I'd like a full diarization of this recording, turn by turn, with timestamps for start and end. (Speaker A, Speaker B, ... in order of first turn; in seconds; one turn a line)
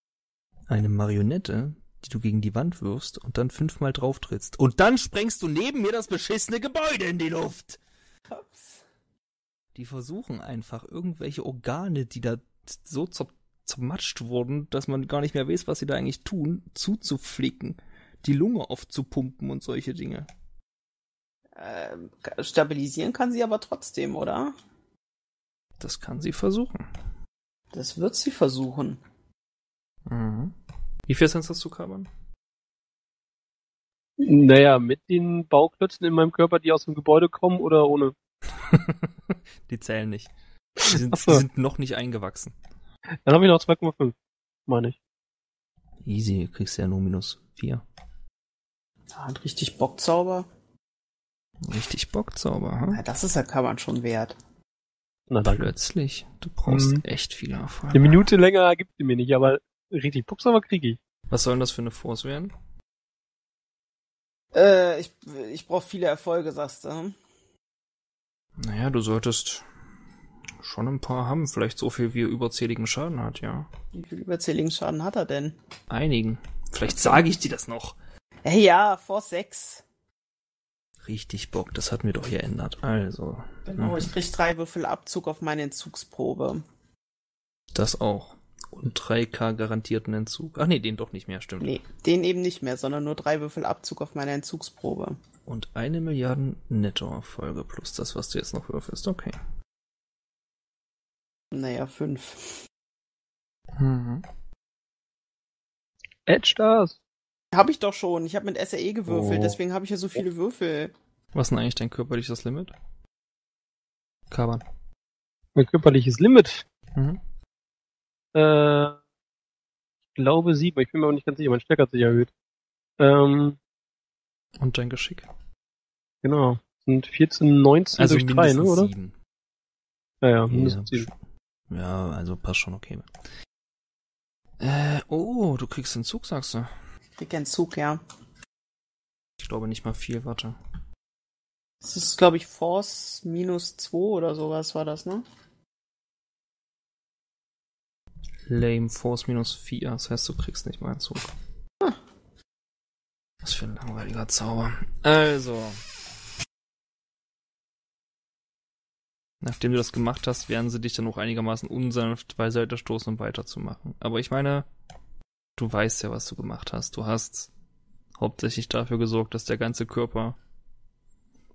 Speaker A: 0.7-7.8
Speaker B: 8.3-8.8
Speaker A: 9.8-20.3
Speaker B: 21.6-24.6
Speaker A: 25.8-26.8
Speaker B: 27.7-29.0
Speaker A: 30.1-30.5
Speaker A: 31.1-32.1
Speaker C: 34.2-38.1
Speaker A: 38.6-42.5
Speaker C: 40.9-41.4
Speaker C: 43.3-44.1
Speaker C: 44.7-45.0
Speaker A: 46.0-47.9
Speaker B: 49.1-50.5
Speaker A: 51.6-53.0
Speaker B: 52.9-54.4
Speaker C: 55.3-55.7
Speaker A: 55.5-58.2
Speaker C: 56.7-57.0
Speaker C: 57.9-61.0
Speaker A: 61.3-62.5
Speaker B: 64.5-67.2
Speaker A: 68.6-69.7
Speaker A: 70.6-73.7
Speaker B: 73.9-75.6
Speaker A: 75.9-78.0
Speaker B: 76.9-77.2
Speaker B: 78.5-79.8
Speaker A: 81.0-84.1
Speaker B: 83.7-86.6
Speaker A: 87.7-91.8
Speaker B: 91.6-95.2
Speaker A: 95.5-99.4
Speaker B: 101.5-102.6
Speaker A: 103.8-104.2
Speaker C: 106.3-107.0
Speaker B: 107.5-110.9
Speaker C: 109.2-109.6
Speaker A: 111.3-112.7
Speaker A: 114.3-114.6
Speaker C: 115.6-116.6
Speaker C: 118.3-119.0
Speaker C: 120.2-122.3
Speaker C: 123.0-123.6
Speaker A: 124.6-125.3
Speaker C: 126.2-128.9
Speaker A: 128.0-129.1
Speaker C: 130.2-131.1
Speaker A: 130.5-131.1
Speaker A: 131.7-133.1
Speaker A: 134.6-136.7
Speaker B: 137.2-138.0
Speaker A: 139.4-140.6
Speaker B: 141.8-145.2
Speaker A: 148.5-151.3
Speaker A: 153.4-155.8
Speaker A: 159.4-164.7
Speaker A: 165.6-167.5
Speaker A: 168.2-170.4